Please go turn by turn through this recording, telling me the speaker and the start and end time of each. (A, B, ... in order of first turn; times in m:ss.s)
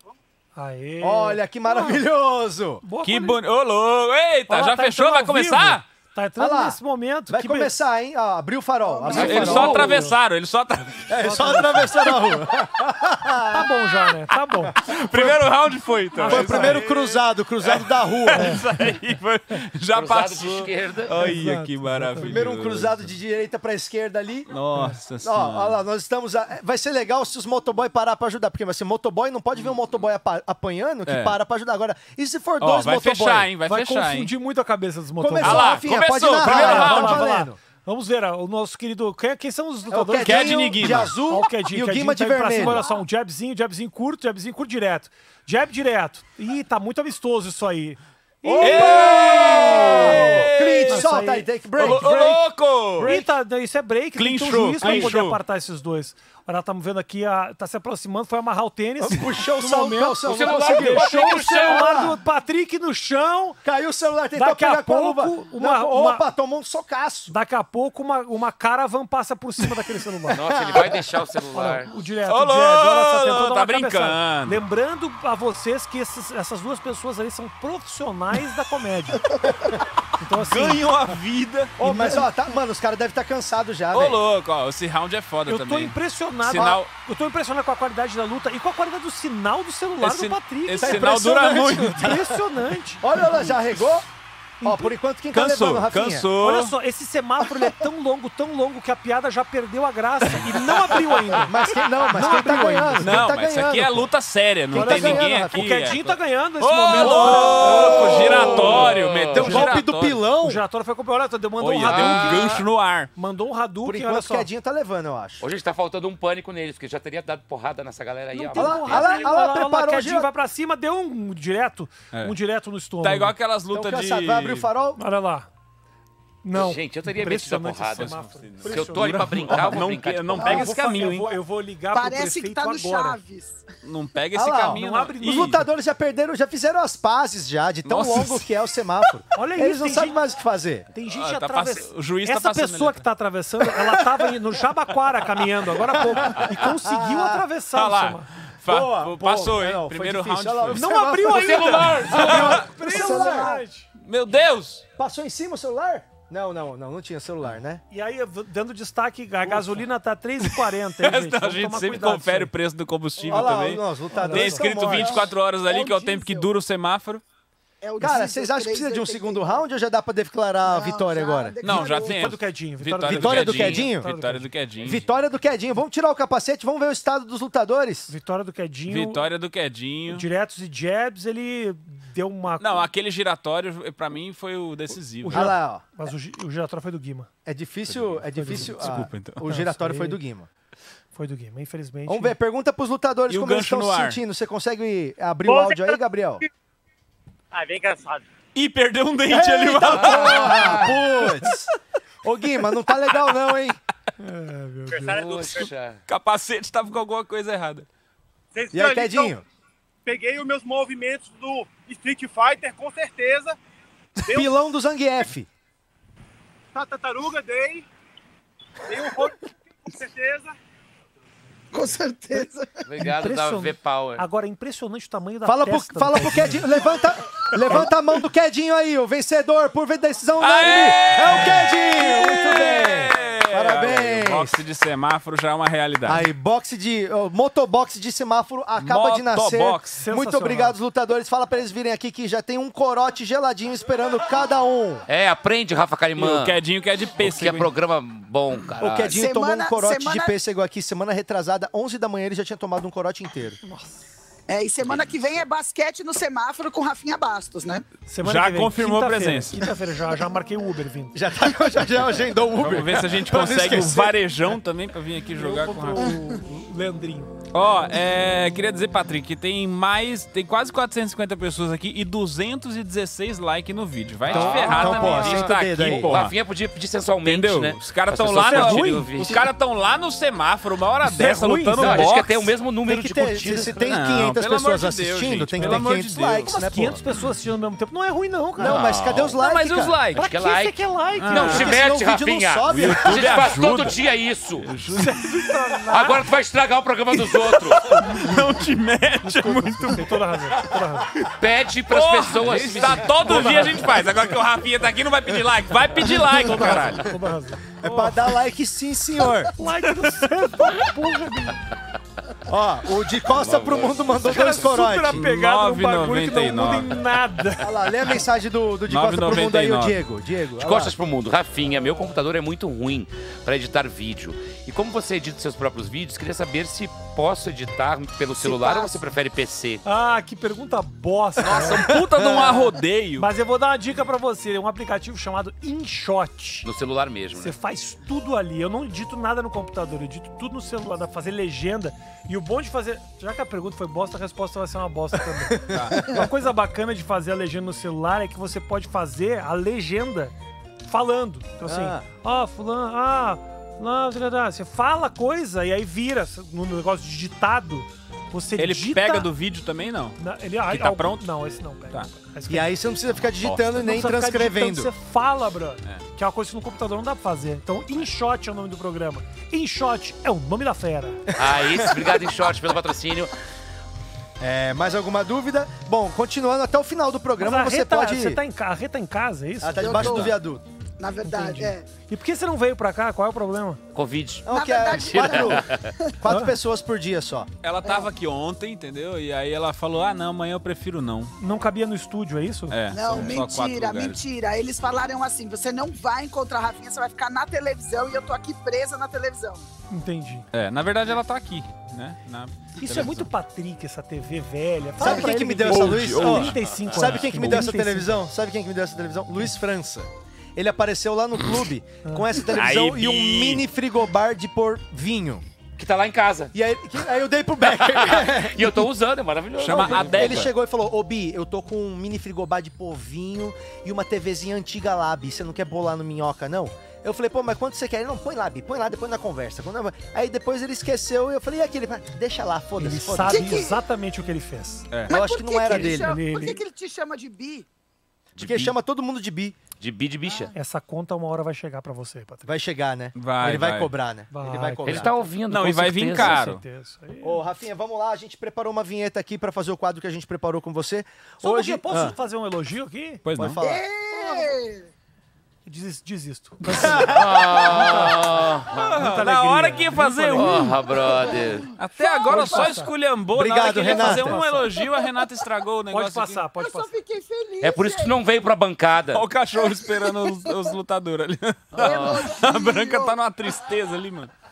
0:00.6-0:02.0 A
0:01.0-0:02.8 B
0:02.8-0:03.4 A
0:03.0-0:05.8 C
0:04.5-0:07.7 A
0:06.4-0:09.9 B
0:09.0-0:10.2 A
0:09.1-0:11.2 C
0:09.2-0:09.6 D
0:11.1-0:13.7 B
0:11.2-0:12.0 A
0:13.5-0:14.8 A
0:14.8-0:23.0 C
0:15.1-0:15.5 B
0:16.1-0:16.8 A
0:16.2-0:18.6 B
0:18.3-0:18.6 A
0:19.9-0:21.1 D
0:21.2-0:22.4 A
0:22.2-0:24.5 B
0:24.5-0:25.8 C
0:24.7-0:25.0 A
0:25.2-0:33.5 B
0:31.1-0:31.4 C
0:32.6-0:34.3 C
0:33.6-0:35.7 A
0:35.2-0:37.6 B
0:35.4-0:37.3 C
0:36.4-0:40.6 A
0:39.9-0:42.8 B
0:40.2-0:41.1 C
0:41.3-0:52.1 A
0:48.4-0:52.4 B
0:48.6-0:51.2 C
0:51.8-0:53.2 C
0:53.0-0:53.2 B
0:53.0-1:03.6 A
0:54.2-0:55.4 C
0:54.8-0:55.1 B
0:59.0-1:02.2 B
1:00.2-1:02.0 D
1:03.6-1:07.3 B
1:04.3-1:06.2 A
1:07.3-1:10.4 A
1:10.3-1:11.9 D
1:10.4-1:11.1 B
1:11.5-1:19.5 A
1:12.3-1:14.6 C
1:20.2-1:20.8 A
1:20.3-1:21.8 C
1:21.8-1:24.2 B
1:21.8-1:22.2 A
1:23.9-1:26.9 C
1:25.5-1:31.1 A
1:30.0-1:32.0 C
1:30.8-1:32.4 B
1:31.7-1:33.0 A
1:33.0-1:34.1 B
1:34.6-1:34.9 A
1:34.6-1:36.3 B
1:35.3-1:36.7 C
1:36.4-1:43.2 A
1:40.2-1:41.0 C
1:41.4-1:44.1 B
1:43.0-1:50.2 C
1:44.7-1:45.6 B
1:44.7-1:48.9 A
1:47.3-1:50.6 B
1:47.6-1:49.6 D
1:49.4-1:49.8 A
1:50.4-1:54.5 A
1:51.6-1:53.1 C
1:51.8-1:52.5 D
1:53.8-1:55.5 B
1:55.4-1:59.2 D
1:58.3-2:03.4 A
1:58.5-2:00.3 B
2:03.0-2:04.7 C
2:03.7-2:05.0 B
2:05.0-2:05.5 A
2:06.4-2:09.9 A
2:06.5-2:08.1 D
2:08.0-2:11.4 C
2:08.6-2:10.7 D
2:10.4-2:10.7 E
2:10.4-2:13.2 A
2:11.9-2:13.6 E
2:13.8-2:15.6 C
2:14.3-2:20.9 B
2:14.7-2:15.7 A
2:17.8-2:18.4 C
2:19.3-2:20.2 A
2:20.9-2:28.3 A
2:21.0-2:23.0 C
2:25.9-2:27.4 B
2:27.7-2:30.9 C
2:28.7-2:33.6 B
2:30.7-2:33.9 A
2:31.3-2:32.6 D
2:31.6-2:33.4 C
2:34.0-2:34.8 C
2:35.0-2:37.8 B
2:37.9-2:42.5 A
2:40.5-2:47.2 C
2:43.2-2:43.6 A
2:43.3-2:45.3 B
2:44.1-2:44.7 A
2:44.8-2:46.5 E
2:47.8-2:49.6 E
2:48.0-2:51.9 B
2:50.6-2:52.3 E
2:51.6-2:55.0 C
2:51.7-2:54.5 A
2:53.0-2:54.1 B
2:54.8-2:58.1 B
2:58.1-2:59.3 A
2:58.9-3:00.3 C
3:00.1-3:02.9 A
3:02.6-3:05.5 C
3:05.2-3:07.3 A
3:05.2-3:05.8 B
3:07.4-3:10.5 B
3:07.9-3:09.4 C
3:08.3-3:10.2 A
3:11.1-3:12.4 A
3:12.1-3:16.4 B
3:13.3-3:14.2 C
3:15.5-3:16.0 F
3:17.5-3:18.3 F
3:18.5-3:20.9 C
3:19.3-3:21.7 B
3:19.8-3:20.9 D
3:22.2-3:23.8 B
3:24.2-3:25.2 A
3:24.9-3:25.7 F
3:25.1-3:26.0 D
3:26.1-3:27.9 C
3:28.5-3:29.4 F
3:28.7-3:29.4 B
3:30.0-3:33.6 F
3:34.2-3:34.5 F
3:34.3-3:35.5 B
3:36.7-3:37.8 F
3:38.9-3:39.4 F
3:39.9-3:40.5 F
3:41.7-3:42.8 E
3:42.8-3:44.2 D
3:43.0-3:46.7 A
3:45.4-3:54.6 B
3:50.4-3:56.2 C
3:56.0-4:05.0 B
3:58.8-4:00.0 C
4:00.0-4:00.8 A
4:05.1-4:06.6 D
4:06.2-4:07.7 C
4:07.2-4:09.2 D
4:08.8-4:13.6 B
4:09.1-4:10.3 E
4:13.6-4:14.2 A
4:14.5-4:17.8 E
4:18.1-4:21.2 A
4:18.2-4:19.7 C
4:21.1-4:24.2 B
4:22.6-4:26.1 C
4:25.4-4:27.3 A
4:27.5-4:36.3 C
4:34.3-4:36.2 B
4:34.3-4:39.4 D
4:34.4-4:35.1 A
4:37.2-4:42.5 C
4:38.4-4:39.1 A
4:41.0-4:42.1 A
4:41.8-4:43.8 D
4:42.8-4:47.0 B
4:43.8-4:46.5 C
4:45.6-4:48.8 A
4:48.6-4:50.0 B
4:48.6-4:49.4 D
4:49.2-4:50.3 C
4:50.1-4:51.7 A
4:50.2-4:54.7 D
4:51.2-4:51.8 C
4:51.4-4:53.4 B
4:52.7-4:54.0 C
4:54.6-4:55.6 C
4:54.9-4:56.2 A
4:55.9-4:58.1 D
4:57.8-5:00.6 C
4:57.9-4:58.4 A
4:59.2-5:01.1 A
5:01.4-5:03.8 D
5:01.9-5:07.2 C
5:03.2-5:03.8 A
5:06.1-5:08.2 A
5:07.8-5:09.5 B
5:09.6-5:11.6 A
5:09.7-5:10.2 C
5:12.5-5:15.2 B
5:13.3-5:14.6 D
5:14.2-5:17.7 A
5:15.1-5:17.0 C
5:17.6-5:20.9 B
5:18.9-5:20.0 C
5:20.6-5:29.8 D
5:28.4-5:29.0 E
5:29.8-5:31.9 A
5:31.4-5:33.3 C
5:31.7-5:32.7 B
5:33.2-5:36.7 A
5:36.6-5:37.6 D
5:37.3-5:59.3 A
5:45.5-5:46.3 B
5:45.7-5:46.0 C
5:51.6-5:52.1 B
5:58.6-6:01.2 C
6:00.2-6:02.8 A
6:02.5-6:04.9 B
6:03.8-6:11.2 A
6:11.3-6:12.2 B
6:11.4-6:13.3 D
6:14.4-6:18.4 B
6:17.4-6:20.3 A
6:19.6-6:20.6 B
6:19.8-6:20.4 E
6:21.0-6:21.8 E
6:21.2-6:23.8 A
6:23.9-6:25.9 D
6:24.4-6:25.7 B
6:24.5-6:26.1 E
6:26.2-6:27.5 B
6:26.2-6:26.5 A
6:27.6-6:31.3 C
6:27.8-6:28.1 E
6:31.4-6:32.8 A
6:32.7-6:34.2 C
6:32.9-6:39.7 E
6:39.9-6:40.4 A
6:40.5-6:43.3 C
6:42.8-6:48.2 A
6:45.0-6:55.4 B
6:45.6-6:47.6 C
6:52.0-6:52.3 A
6:52.5-6:53.6 C
6:55.8-6:56.5 D
6:56.5-6:58.9 B
6:57.6-7:00.5 D
6:59.6-7:00.5 C
6:59.9-7:13.6 B
7:12.8-7:14.9 A
7:13.2-7:13.8 E
7:14.9-7:15.2 C
7:15.1-7:17.6 E
7:15.1-7:16.2 B
7:15.7-7:16.6 A
7:18.4-7:18.8 D
7:18.4-7:19.6 B
7:19.8-7:20.5 D
7:20.5-7:22.5 A
7:22.4-7:25.1 B
7:23.1-7:23.9 C
7:24.3-7:25.2 A
7:24.8-7:26.4 D
7:25.4-7:26.6 C
7:26.1-7:27.4 A
7:27.2-7:32.1 B
7:31.4-7:33.2 A
7:33.2-7:33.6 C
7:33.3-7:33.8 B
7:33.6-7:34.9 E
7:34.1-7:34.4 A
7:35.6-7:38.3 A
7:36.7-7:37.2 B
7:37.1-7:39.0 D
7:38.8-7:40.8 C
7:38.9-7:40.8 A
7:40.3-7:41.7 D
7:41.8-7:46.4 C
7:42.0-7:42.8 E
7:42.0-7:42.9 A
7:43.3-7:44.4 B
7:43.6-7:44.8 A
7:45.9-7:46.9 A
7:46.6-7:48.2 E
7:47.6-7:49.2 D
7:49.1-7:54.3 C
7:49.6-7:50.7 E
7:51.7-7:52.3 D
7:51.8-7:53.2 E